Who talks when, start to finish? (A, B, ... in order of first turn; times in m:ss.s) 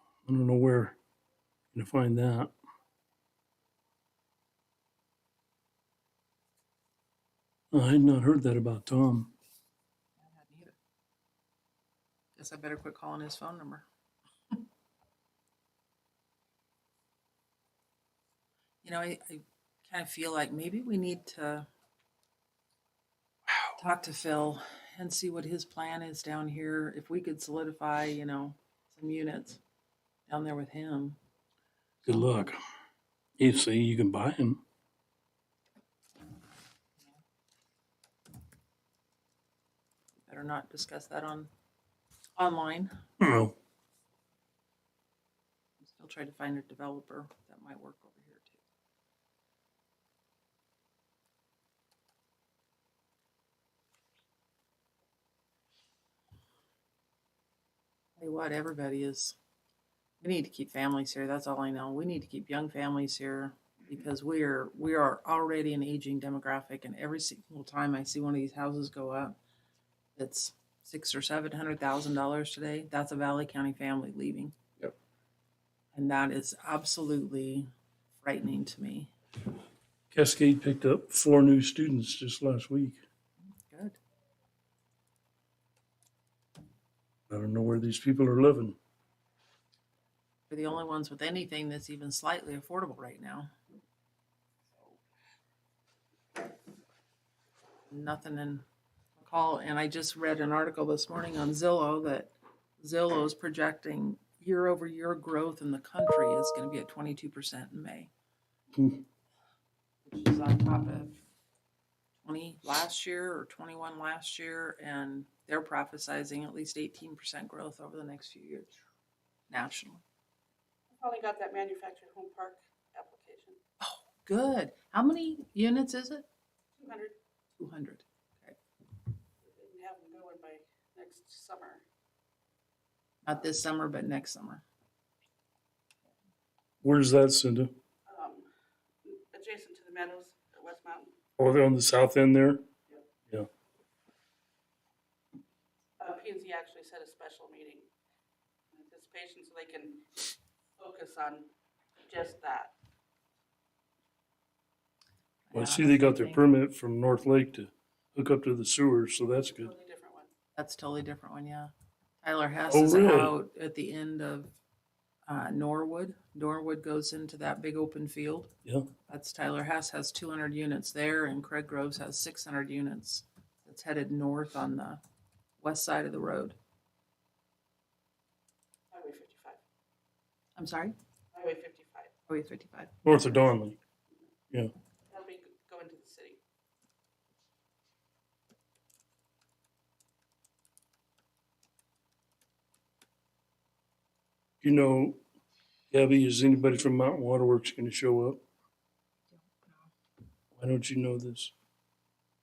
0:00.3-0:01.0 A
0:01.7-0:02.5 A
0:07.7-0:09.3 A
0:10.2-0:10.8 B
0:12.4-0:13.9 B
0:18.8-0:21.7 B
0:23.8-0:29.6 B
0:30.3-0:31.2 B
0:32.0-0:32.6 A
0:33.4-0:34.6 A
0:40.3-0:41.5 B
0:42.4-0:42.9 B
0:43.2-0:43.5 A
0:45.8-0:48.6 B
0:58.2-0:59.4 B
1:00.2-1:09.4 B
1:10.2-1:14.5 B
1:16.0-1:19.1 B
1:20.1-1:23.0 A
1:23.7-1:24.0 B
1:27.3-1:28.8 A
1:30.5-1:33.5 B
1:37.9-1:38.6 B
1:39.2-1:48.1 B
1:48.8-1:49.0 A
1:50.0-1:51.2 B
1:52.2-1:58.7 B
1:59.5-2:00.0 B
2:00.9-2:03.6 C
2:03.8-2:06.3 B
2:06.8-2:07.2 C
2:07.6-2:08.6 B
2:09.4-2:11.8 C
2:13.2-2:14.6 B
2:16.8-2:17.7 A
2:18.1-2:18.5 C
2:19.0-2:21.1 C
2:21.4-2:22.6 A
2:26.0-2:27.9 C
2:28.7-2:31.5 C
2:32.0-2:32.7 C
2:35.5-2:36.4 B
2:35.5-2:39.7 A
2:39.4-2:40.3 C
2:40.6-2:41.7 B
2:42.2-2:44.5 B
2:42.7-2:43.4 A
2:45.3-2:48.5 B
2:49.1-2:55.0 B
2:55.6-2:56.6 B
2:58.9-2:59.6 C
3:00.6-3:01.0 B
3:01.3-3:02.1 C
3:02.3-3:03.4 B
3:03.0-3:03.8 A
3:05.1-3:06.4 C
3:14.6-3:15.2 A
3:15.9-3:18.4 A
3:20.5-3:21.5 A